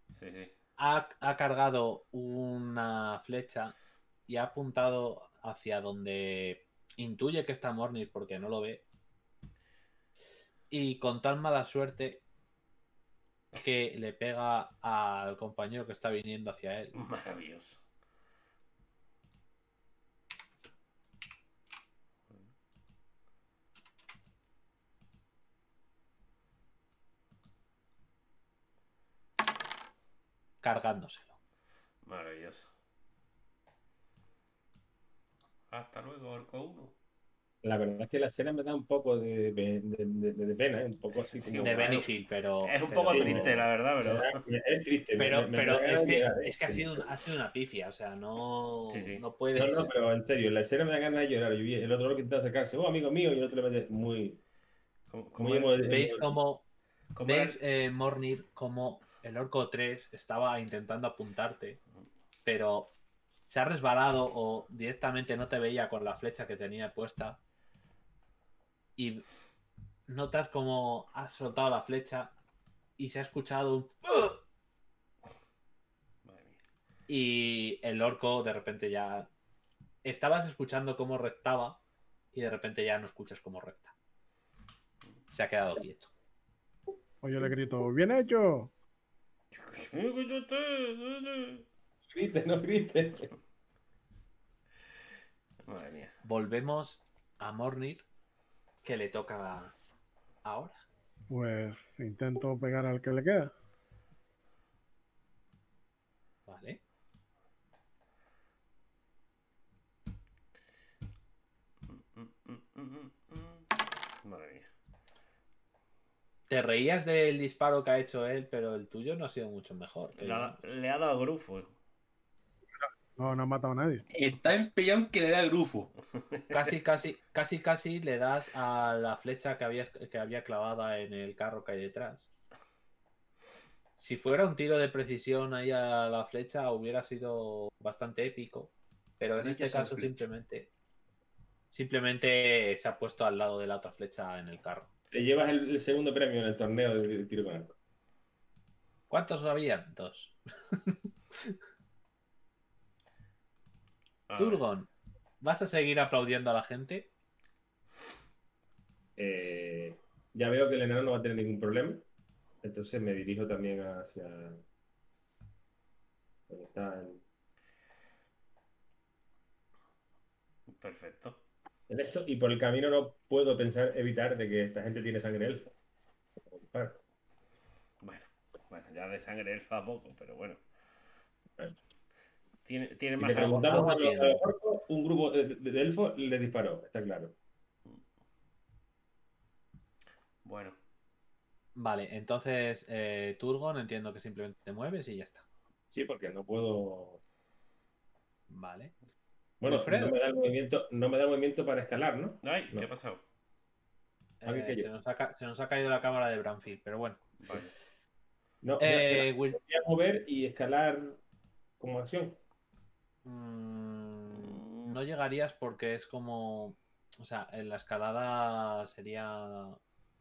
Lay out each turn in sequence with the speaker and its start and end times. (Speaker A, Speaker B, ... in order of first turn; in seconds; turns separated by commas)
Speaker A: 0.1-0.5, Speaker B: 0.8-3.7, Speaker B: 4.3-8.8, Speaker B: 10.7-12.2, Speaker B: 13.6-16.9, Speaker A: 16.9-17.8, Speaker B: 30.6-31.3, Speaker A: 32.0-32.7, Speaker A: 35.7-36.9, Speaker C: 37.6-42.1, Speaker A: 41.1-42.1, Speaker B: 41.6-43.6, Speaker A: 42.6-44.4, Speaker C: 43.1-47.1, Speaker B: 45.2-49.9, Speaker A: 48.9-49.2, Speaker C: 49.6-54.4, Speaker A: 55.1-55.8, Speaker C: 55.4-56.4, Speaker B: 55.9-56.6, Speaker A: 57.1-57.6, Speaker B: 57.2-61.8, Speaker B: 62.4-62.9, Speaker B: 63.5-67.4, Speaker B: 69.0-69.2, Speaker B: 70.1-72.3, Speaker B: 73.0-74.4, Speaker A: 76.2-76.6, Speaker B: 77.1-79.3, Speaker B: 80.0-81.8, Speaker B: 82.3-83.9, Speaker B: 85.3-86.1, Speaker D: 87.2-88.7, Speaker A: 89.5-91.7, Speaker C: 92.1-93.3, Speaker A: 95.7-96.2, Speaker B: 96.2-98.0, Speaker B: 98.8-99.7, Speaker B: 100.4-100.8, Speaker D: 101.3-103.5, Speaker B: 106.5-106.8, Speaker A: 111.9-113.7, Speaker A: 114.2-114.7, Speaker B: 116.5-120.6, Speaker A: 120.2-121.7, Speaker D: 123.2-124.0, Speaker E: 124.1-125.9, Speaker A: 126.3-126.7, Speaker B: 126.5-132.3, Speaker B: 134.0-140.7, Speaker E: 139.4-140.2, Speaker B: 141.7-144.9, Speaker C: 145.1-147.8, Speaker B: 149.1-151.6, Speaker A: 154.3-154.6, Speaker B: 154.4-154.9, Speaker B: 155.4-157.1, Speaker C: 159.2-162.0, Speaker C: 162.6-164.6, Speaker C: 166.5-167.2, Speaker A: 170.7-171.4, Speaker C: 171.9-175.7, Speaker C: 176.5-177.0, Speaker A: 178.0-180.6, Speaker A: 182.7-183.9, Speaker C: 183.2-187.3, Speaker B: 183.3-184.4, Speaker A: 190.4-190.8, Speaker B: 191.8-195.4, Speaker C: 195.9-197.2, Speaker B: 198.5-198.9, Speaker C: 199.6-202.9, Speaker B: 199.7-200.2, Speaker A: 202.4-203.2, Speaker B: 204.4-207.3, Speaker C: 204.5-204.9, Speaker A: 207.4-207.7, Speaker C: 208.6-211.2, Speaker B: 208.8-209.6, Speaker C: 211.8-212.4, Speaker B: 213.2-219.8, Speaker A: 214.3-215.0